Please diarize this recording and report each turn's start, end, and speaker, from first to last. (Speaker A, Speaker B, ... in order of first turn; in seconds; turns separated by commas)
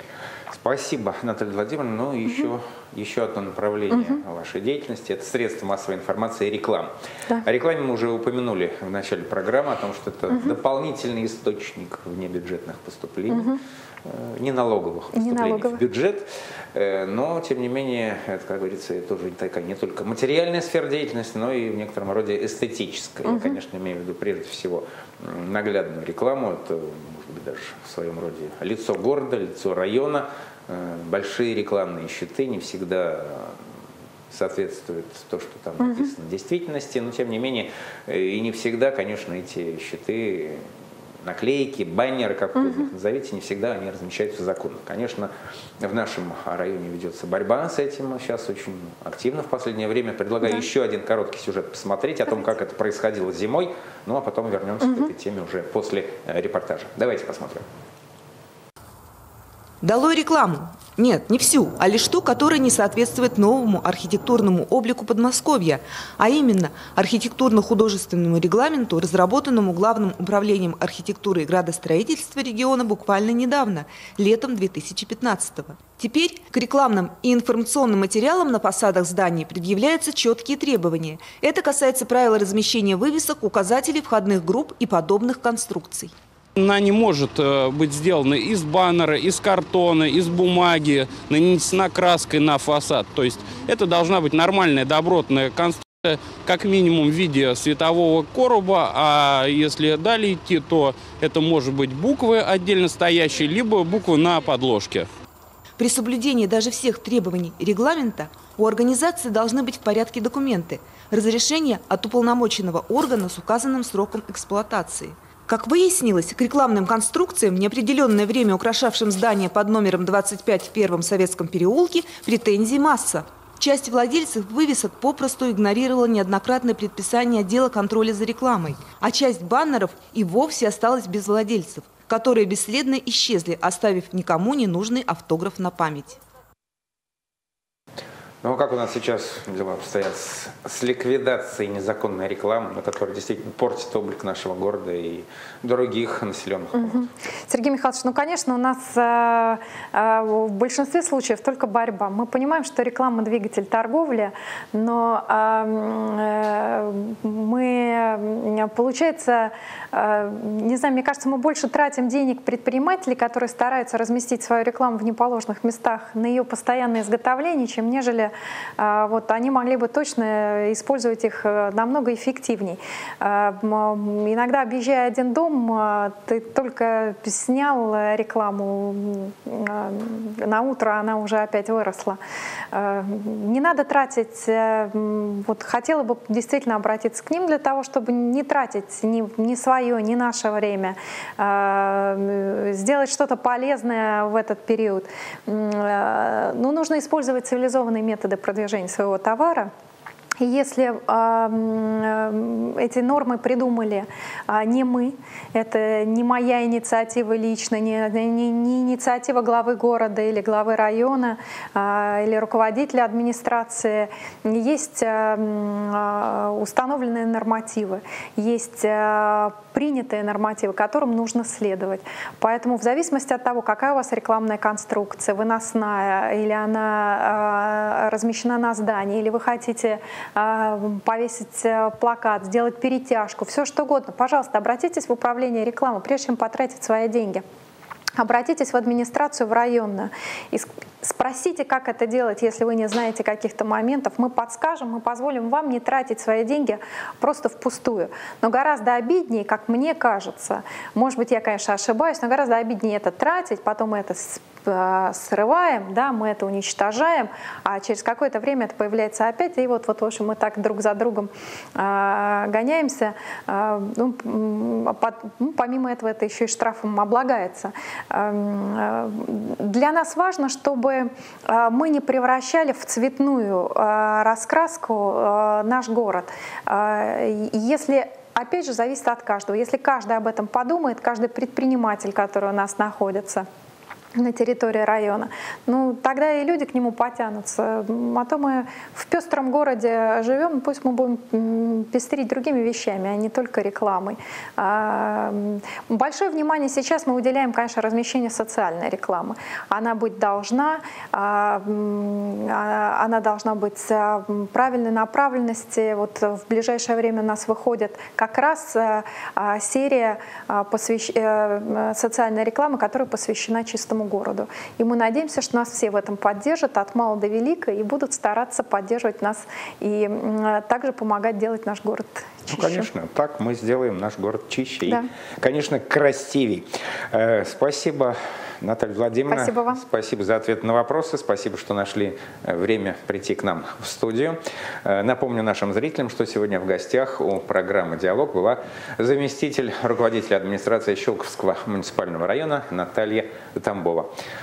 Speaker A: 0.5-6.9, Speaker B: 3.9-4.2, Speaker A: 7.4-33.6, Speaker B: 10.3-10.6, Speaker B: 13.3-13.6, Speaker B: 15.1-15.8, Speaker B: 23.2-23.6, Speaker A: 34.3-40.7, Speaker B: 35.8-36.1, Speaker A: 41.2-57.7, Speaker B: 42.6-42.9, Speaker C: 59.8-86.1, Speaker D: 86.6-105.1, Speaker C: 105.8-136.2, Speaker A: 138.4-147.1, Speaker B: 146.8-182.2, Speaker B: 182.7-199.7, Speaker B: 200.4-237.4, Speaker B: 238.2-283.5, Speaker B: 284.2-322.9, Speaker A: 322.5-344.1, Speaker B: 329.3-329.8